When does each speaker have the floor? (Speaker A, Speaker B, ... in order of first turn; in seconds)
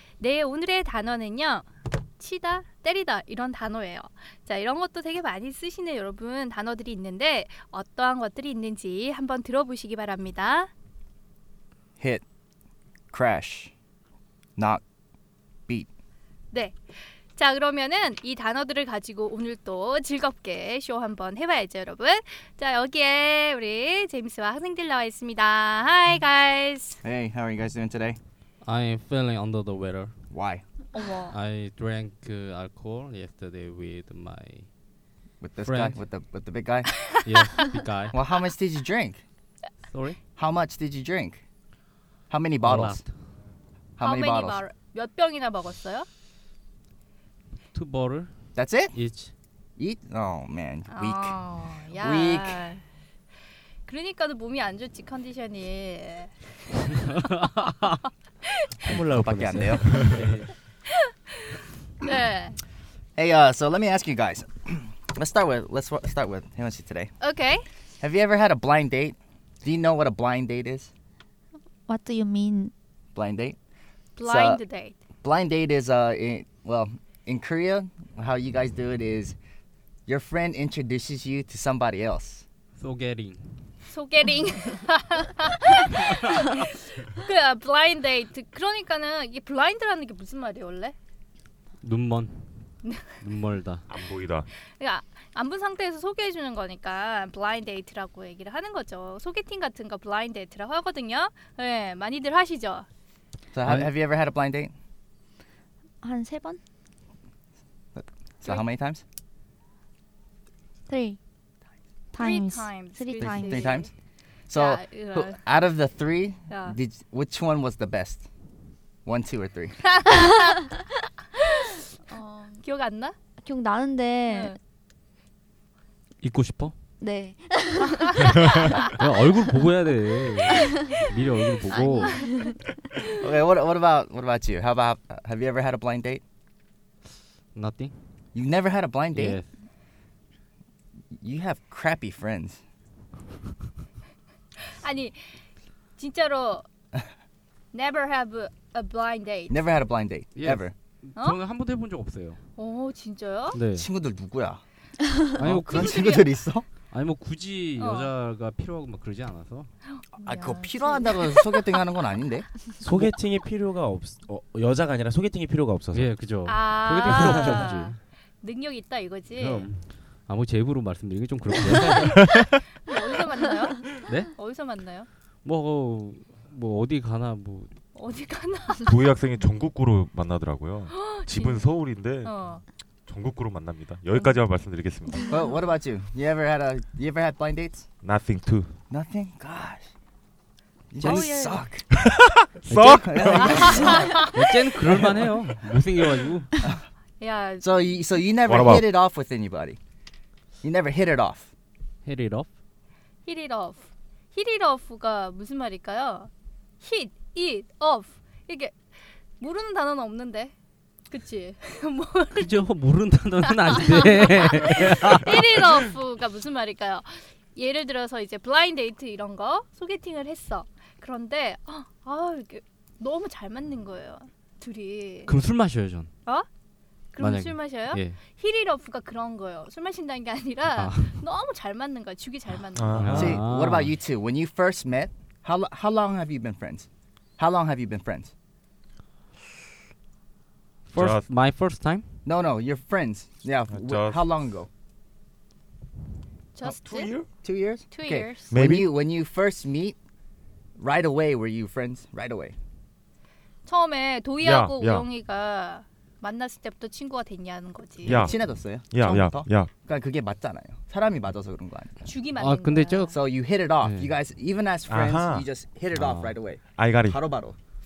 Speaker A: 0.2-1.7, 2.2-10.7, 16.5-16.8, 17.4-27.0, 30.9-31.4, 44.0-46.1, 50.9-52.8, 53.9-58.7, 61.4-62.6, 67.2-67.7, 74.2-75.0, 83.9-91.0, 94.8-102.9, 112.2-113.9, 114.5-115.4, 116.5-116.8, 119.9-120.3, 122.1-123.2, 124.3-124.6, 144.6-145.3, 146.0-146.7, 147.7-149.6, 152.6-153.6, 155.7-156.3, 157.8-158.1, 159.9-161.7, 166.5-169.7, 172.8-175.1, 177.9-178.9, 180.9-181.7, 182.2-182.6, 191.0-191.5, 193.4-194.3, 197.2-198.0, 203.3-208.8, 209.4-210.5, 211.1-212.5, 213.5-225.3, 227.1-233.1, 246.6-247.1, 247.9-248.5, 253.7-258.3, 262.1-263.1
Speaker B: 12.0-12.2, 13.1-13.7, 14.6-14.8, 27.0-28.2, 30.3-30.6, 35.4-37.1, 38.1-39.2, 40.4-41.4, 42.3-43.0, 44.0-44.6, 48.5-49.0, 49.8-51.4, 51.9-52.6, 58.9-60.2, 63.2-67.1, 68.0-70.9, 73.2-73.6, 74.2-74.6, 75.2-79.4, 80.1-82.5, 103.5-104.7, 107.9-109.0, 113.2-113.9, 114.5-118.3, 119.0-119.8, 133.2-136.2, 138.3-139.4, 141.2-142.6, 149.5-150.7, 153.7-154.6, 155.4-156.7, 160.2-162.5, 185.3-187.9, 188.9-189.9, 190.9-192.1, 192.6-194.3, 197.6-199.8, 200.6-201.5, 233.1-236.9, 237.4-238.3, 242.2-244.7, 247.4-250.0, 250.8-252.6, 258.1-262.1, 263.1-267.6
Speaker C: 28.6-30.1, 31.3-34.7, 35.6-36.0, 37.2-38.2, 39.9-40.2, 42.6-43.1, 47.7-48.3, 48.9-49.3, 57.1-58.0, 82.8-83.5, 91.8-92.4, 93.2-93.9, 103.7-103.9, 126.2-126.8, 128.9-132.2, 137.5-137.9, 139.1-139.5, 150.4-152.4, 153.5-153.9, 155.4-156.2, 156.9-159.7, 165.9-168.0, 170.3-172.2, 175.4-177.7, 194.1-196.5, 202.1-202.5, 212.4-215.9, 225.3-226.1, 227.2-228.2, 230.7-231.2, 233.0-233.9, 240.9-242.1, 262.4-263.2, 263.8-264.1, 265.9-266.4
Speaker D: 58.8-60.5, 162.8-166.1, 167.1-167.6, 169.4-169.8, 171.7-172.1
Speaker E: 71.9-72.7, 106.0-106.6, 110.9-111.2, 112.1-113.8, 122.2-122.5, 123.4-124.6, 127.0-128.7, 130.5-131.0, 131.7-132.6, 191.0-191.6
Speaker F: 93.9-94.5, 178.8-182.3, 183.1-185.3, 188.0-188.7, 191.9-194.1, 198.5-198.9, 232.8-233.5, 240.9-241.3, 243.7-244.3, 246.6-247.3, 248.5-248.9, 254.4-255.1, 258.0-259.7, 264.9-265.5, 266.8-267.2